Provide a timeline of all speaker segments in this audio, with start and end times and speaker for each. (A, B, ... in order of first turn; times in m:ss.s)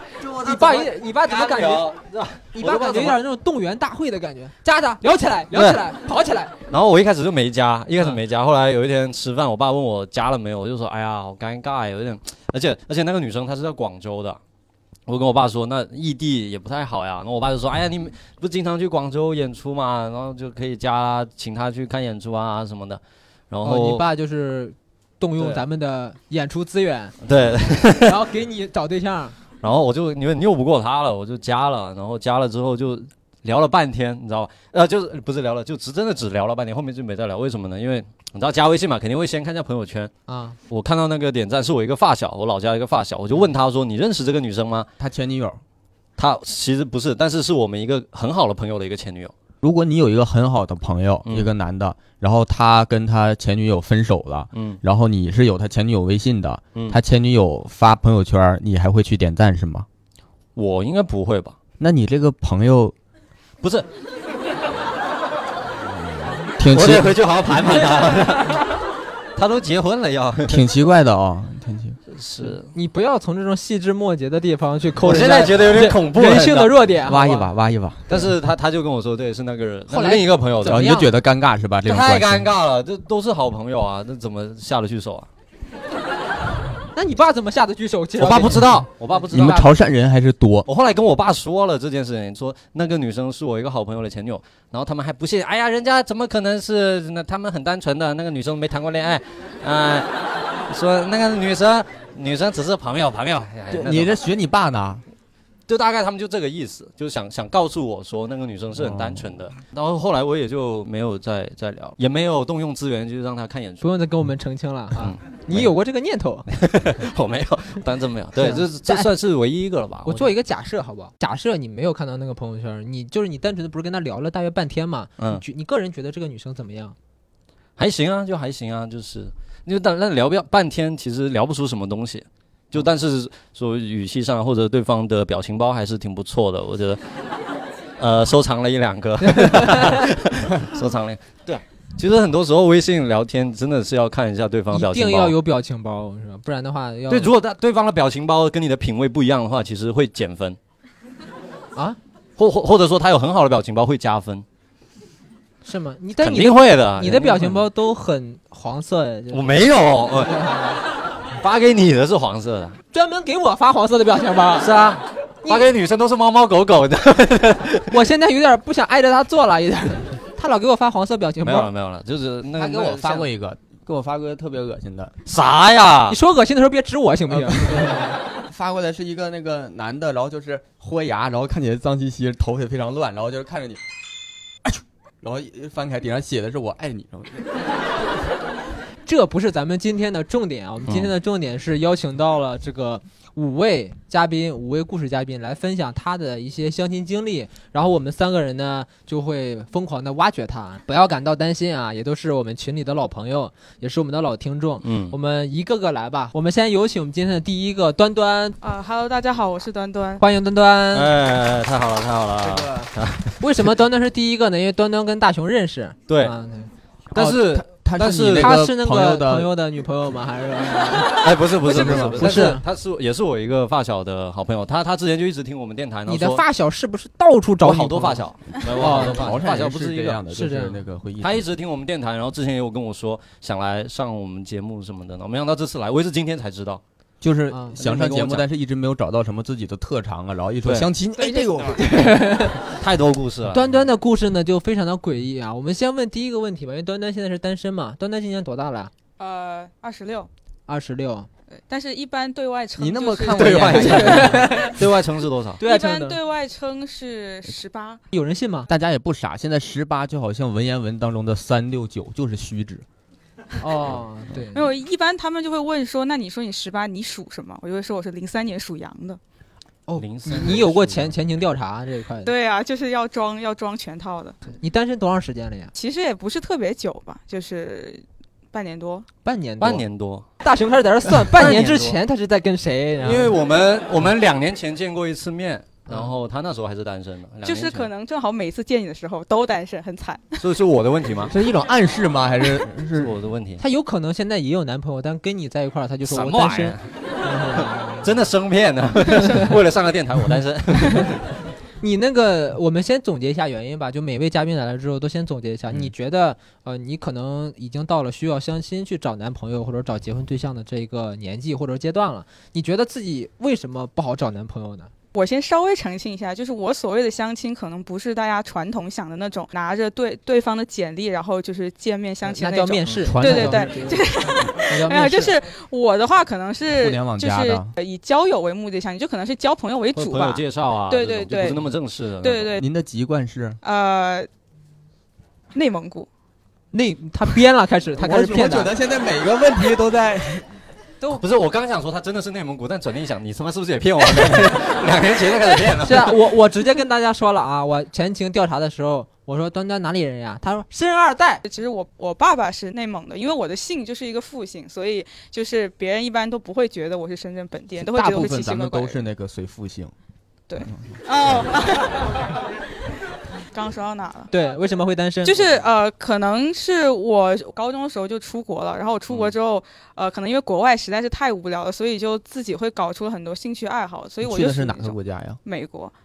0:00.2-0:03.2 A
0:00.4-0:01.9 B
0:02.6-0:06.5 B
0:02.6-0:03.1 C
0:05.5-0:05.8 A
0:06.7-0:14.4 A
0:15.1-0:24.0 A
0:23.6-0:27.1 B
0:27.2-0:28.1 A
0:28.0-0:29.4 B
0:29.6-0:40.1 A
0:40.3-0:40.6 B
0:40.7-0:44.9 A
0:45.0-0:45.6 C
0:46.2-0:49.3 A
0:49.6-0:59.9 C
0:54.5-0:54.8 A
1:00.6-1:01.6 A
1:01.8-1:02.9 C
1:03.6-1:03.9 A
1:05.8-1:07.8 C
1:06.7-1:08.8 A
1:09.4-1:10.6 A
1:10.4-1:12.0 C
1:12.1-1:12.7 A
1:12.6-1:17.5 B
1:15.0-1:16.7 A
1:17.0-1:18.2 C
1:18.1-1:20.8 A
1:19.9-1:21.1 B
1:20.6-1:22.5 C
1:21.8-1:25.3 A
1:26.9-1:28.6 B
1:28.2-1:29.7 A
1:29.3-1:30.6 C
1:30.6-1:40.1 A
1:40.7-1:44.2 A
1:43.7-1:45.0 C
1:45.7-1:53.8 A
1:48.7-1:49.3 C
1:53.8-1:56.4 B
1:55.0-1:55.7 A
1:56.5-2:00.3 A
1:58.4-1:59.1 B
2:00.0-2:07.0 B
2:07.8-2:17.0 A
2:18.0-2:25.3 A
2:19.4-2:19.8 B
2:24.7-2:27.3 B
2:27.1-2:30.6 A
2:32.4-2:34.4 A
2:35.6-2:39.7 B
2:36.2-2:37.6 A
2:39.3-2:40.4 A
2:40.2-2:40.8 B
2:41.3-2:42.8 A
2:42.9-2:44.7 B
2:44.6-2:47.9 A
2:47.9-2:51.7 B
2:51.4-2:53.3 A
2:52.5-2:55.1 C
2:55.2-2:56.2 A
2:56.1-2:58.1 B
2:57.3-3:03.8 C
3:04.6-3:07.4 C
3:09.0-3:28.6 B
3:10.8-3:11.1 A
3:24.8-3:25.1 A
3:28.6-3:30.2 D
3:30.2-3:31.1 B
3:30.9-3:33.4 A
3:32.4-3:32.9 C
3:33.4-3:36.7 B
3:36.1-3:36.3 A
3:37.1-3:38.5 A
3:37.1-3:39.5 C
3:38.4-3:41.3 B
3:41.2-3:46.4 A
3:41.6-3:42.6 C
3:42.2-3:42.6 B
3:46.1-3:49.4 B
3:47.6-3:50.2 A
3:48.7-3:51.4 C
3:50.3-3:50.8 B
3:51.2-3:56.8 A
3:57.2-4:02.1 C
3:57.5-3:57.8 B
3:57.8-3:58.4 A
4:00.6-4:00.9 A
4:01.9-4:02.6 B
4:02.1-4:03.7 A
4:03.5-4:08.9 B
4:09.2-4:10.3 D
4:10.7-4:11.3 B
4:11.7-4:14.3 D
4:12.8-4:14.4 C
4:13.3-4:15.6 A
4:13.9-4:14.8 B
4:15.6-4:16.2 B
4:15.6-4:18.0 D
4:18.1-4:18.7 B
4:18.7-4:22.8 C
4:23.6-4:24.7 B
4:24.5-4:29.2 D
4:29.9-4:32.3 B
4:30.0-4:31.1 A
4:32.2-4:34.4 D
4:34.5-4:35.7 B
4:35.7-4:39.1 D
4:39.2-4:39.8 B
4:39.6-4:40.3 A
4:40.4-4:43.3 B
4:41.3-4:42.0 A
4:43.0-4:47.9 A
4:45.9-4:46.1 B
4:47.4-4:50.4 D
4:50.4-4:51.3 A
4:51.3-4:53.1 C
4:53.0-4:53.6 A
4:53.6-4:58.0 B
4:56.0-4:56.8 A
4:58.0-5:01.3 A
5:01.8-5:14.9 B
5:15.1-5:31.7 D
5:22.2-5:25.3 B
5:23.0-5:24.0 C
5:26.7-5:27.7 C
5:29.9-5:32.6 A
5:32.2-5:32.6 D
5:32.6-5:33.6 C
5:33.6-5:34.3 D
5:35.5-5:36.1 D
5:36.7-5:38.7 B
5:38.0-5:40.4 C
5:41.1-5:46.1 A
5:45.8-5:51.4 B
5:51.4-5:59.0 D
5:57.8-5:59.9 C
6:00.5-6:02.1 D
6:03.5-6:04.3 D
6:04.3-6:05.4 B
6:05.2-6:15.9 D
6:14.2-6:15.4 C